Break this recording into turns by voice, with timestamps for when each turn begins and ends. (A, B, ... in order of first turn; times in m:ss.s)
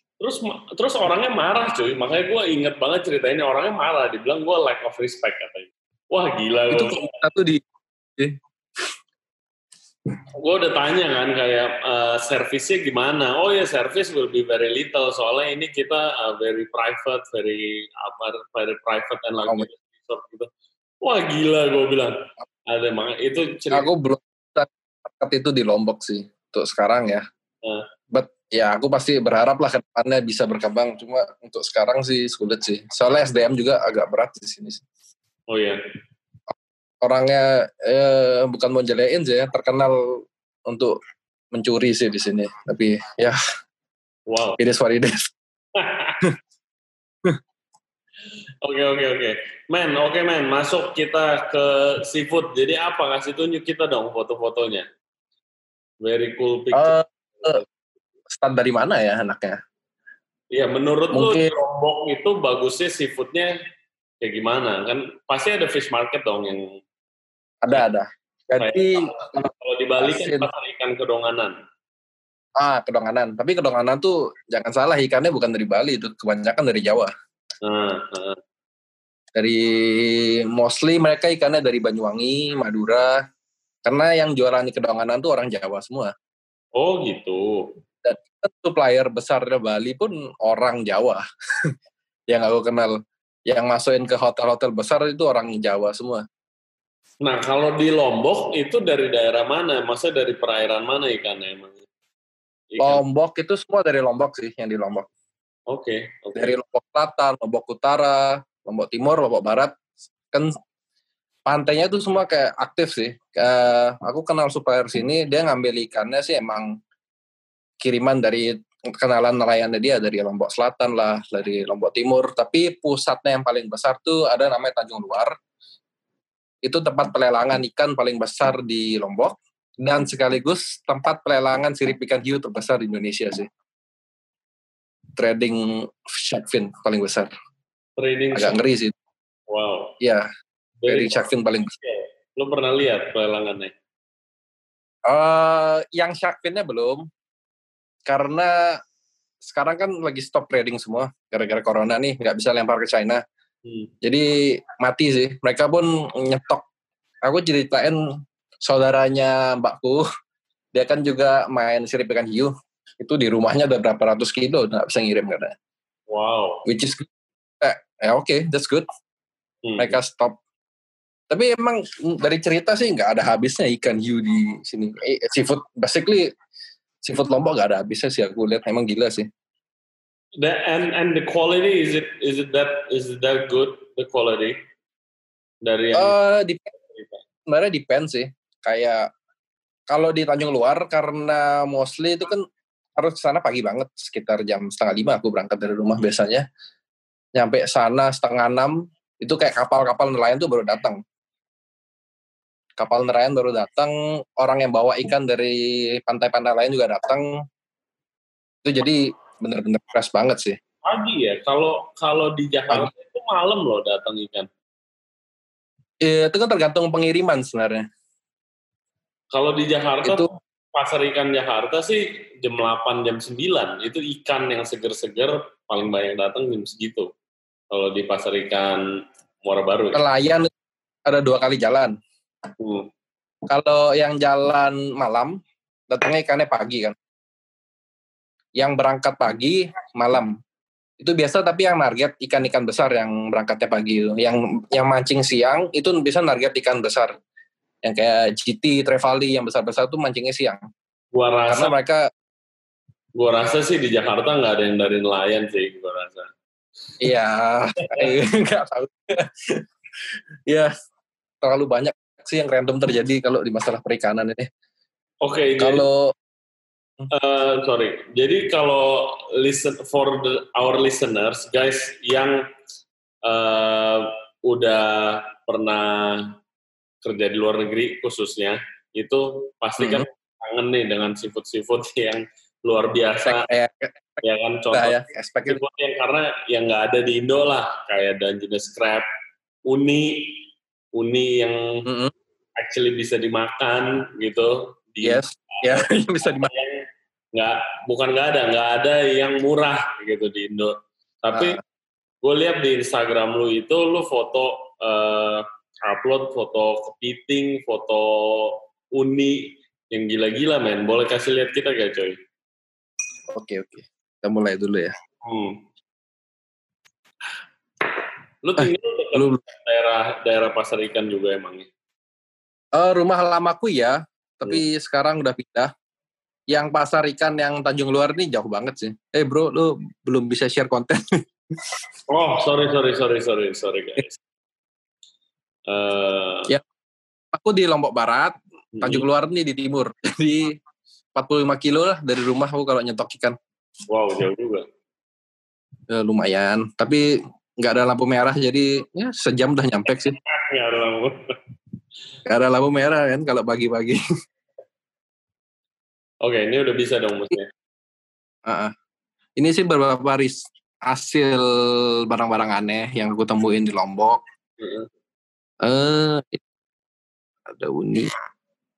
0:00.2-0:07.1 A
0:06.7-0:07.6 B
0:10.4-0:20.5 A
0:21.0-0:22.1 A
0:22.7-0:23.9 A
0:23.7-0:27.2 B
0:28.1-0:34.8 B
0:35.5-0:35.8 A
0:37.0-0:41.0 B
0:41.5-0:43.4 B
0:44.3-0:44.6 A
0:44.6-0:45.2 B
0:45.8-0:46.2 A
0:48.6-0:54.8 A
0:56.0-0:57.6 A
0:56.7-0:57.6 B
0:58.4-0:59.6 B
1:00.5-1:03.5 A
1:01.1-1:01.5 B
1:04.2-1:06.7 A
1:07.6-1:10.4 B
1:08.6-1:08.8 A
1:09.5-1:11.5 A
1:12.6-1:17.1 B
1:17.6-1:18.4 A
1:19.3-1:23.1 B
1:23.8-1:26.1 B
1:26.8-1:27.6 A
1:28.0-1:31.7 B
1:32.3-1:33.0 B
1:33.5-1:36.2 B
1:37.2-1:41.8 A
1:42.7-1:43.0 A
1:42.8-1:45.0 B
1:45.7-1:46.5 A
1:46.3-1:49.7 B
1:51.4-1:56.7 B
1:57.8-2:05.3 B
2:06.6-2:13.5 B
2:15.2-2:17.3 B
2:18.0-2:18.6 A
2:18.3-2:18.9 B
2:19.5-2:19.9 A
2:20.0-2:20.3 B
2:20.8-2:21.2 A
2:20.9-2:21.7 B
2:21.8-2:23.7 A
2:25.1-2:27.0 B
2:28.0-2:28.5 B
2:29.4-2:33.2 B
2:33.6-2:33.9 A
2:34.0-2:36.6 B
2:37.2-2:38.0 B
2:38.6-2:40.0 B
2:40.7-2:45.5 B
2:46.1-2:46.6 A
2:46.6-2:47.1 B
2:47.6-2:48.8 B
2:49.6-2:50.0 A
2:49.8-2:50.4 B
2:51.3-2:56.3 B
2:57.0-2:59.3 B
3:00.4-3:04.6 A
3:05.6-3:06.2 A
3:05.9-3:06.7 B
3:06.7-3:07.2 A
3:07.4-3:09.1 B
3:09.9-3:12.4 B
3:13.0-3:16.4 B
3:17.4-3:21.0 B
3:22.8-3:27.3 B
3:28.6-3:30.6 B
3:30.8-3:34.5 A
3:36.0-3:37.8 B
3:39.3-3:47.1 A
3:47.7-3:48.8 A
3:49.4-3:50.0 A
3:49.9-3:50.5 B
3:51.0-3:51.9 B
3:52.6-3:52.9 A
3:53.5-3:55.3 B
3:55.9-3:56.9 B
3:58.6-4:00.3 B
4:01.0-4:07.1 B
4:07.8-4:10.6 B
4:11.1-4:11.7 A
4:11.5-4:12.0 B
4:13.2-4:16.3 A
4:17.0-4:19.6 B
4:17.8-4:18.1 A
4:21.4-4:24.5 B
4:25.2-4:25.8 A
4:25.6-4:26.1 B
4:27.1-4:32.4 A
4:33.2-4:36.3 A
4:37.0-4:43.4 A
4:39.8-4:40.0 B
4:43.2-4:44.2 B
4:44.2-4:49.0 A
4:44.7-4:45.6 B
4:49.7-4:50.4 A
4:51.0-4:51.8 A
4:51.8-4:52.1 B
4:52.6-4:56.8 A
4:55.0-4:56.5 B
4:57.3-5:01.6 A
5:01.3-5:01.6 B
5:02.2-5:12.2 A
5:13.3-5:14.9 B
5:15.2-5:15.6 A
5:18.4-5:21.7 A
5:18.6-5:19.4 B
5:22.8-5:25.7 B
5:26.5-5:31.0 B
5:32.1-5:34.2 A
5:35.7-5:36.5 A
5:37.3-5:40.5 B
5:38.7-5:39.1 A
5:41.1-5:43.4 B
5:43.9-5:44.6 A
5:45.9-5:47.0 B
5:47.6-5:50.1 B
5:50.0-5:51.3 A
5:52.2-5:54.0 B
5:56.2-5:57.5 A
5:58.4-5:58.7 B
5:59.4-6:04.2 B
6:04.6-6:04.9 A
6:05.6-6:06.4 B
6:07.5-6:08.1 B